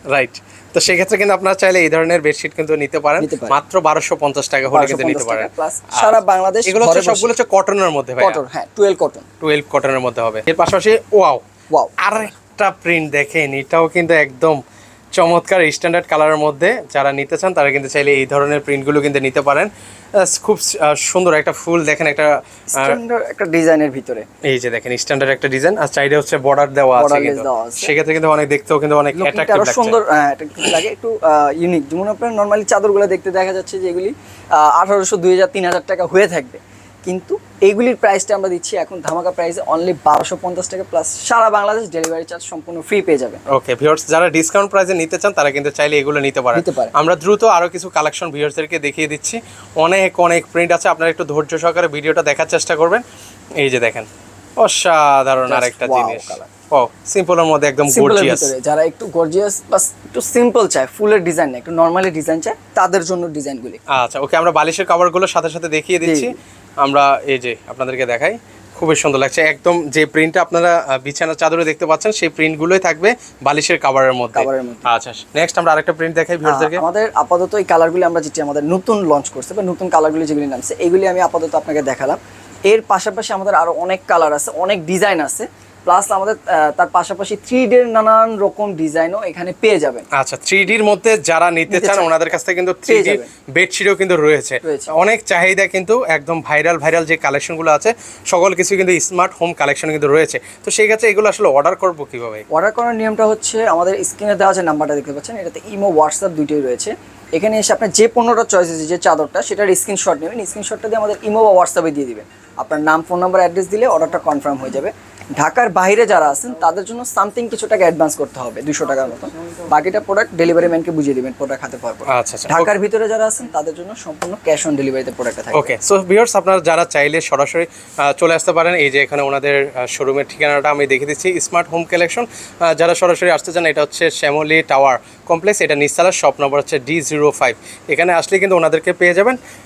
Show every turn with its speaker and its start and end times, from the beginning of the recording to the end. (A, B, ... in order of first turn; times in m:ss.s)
0:00.1-0:08.4 A
0:03.2-0:03.6 B
0:04.7-0:07.4 B
0:08.2-0:09.3 B
0:09.4-0:11.4 A
0:11.7-0:12.3 B
0:12.0-0:14.6 A
0:15.2-0:19.7 A
0:20.2-0:23.0 A
0:22.7-0:24.3 B
0:24.5-0:30.0 A
0:27.0-0:27.9 B
0:29.1-0:43.4 B
0:43.5-0:53.0 A
0:46.6-0:46.9 B
0:53.6-0:54.1 A
0:54.6-0:58.5 A
0:55.4-0:56.5 B
0:57.9-1:03.8 B
1:03.9-1:16.8 A
1:06.0-1:06.3 B
1:14.4-1:14.9 B
1:16.4-1:30.1 B
1:30.1-1:42.4 A
1:31.7-1:32.2 B
1:32.9-1:33.3 B
1:34.6-1:34.9 B
1:42.5-2:05.7 B
2:02.1-2:02.7 A
2:05.5-2:19.4 A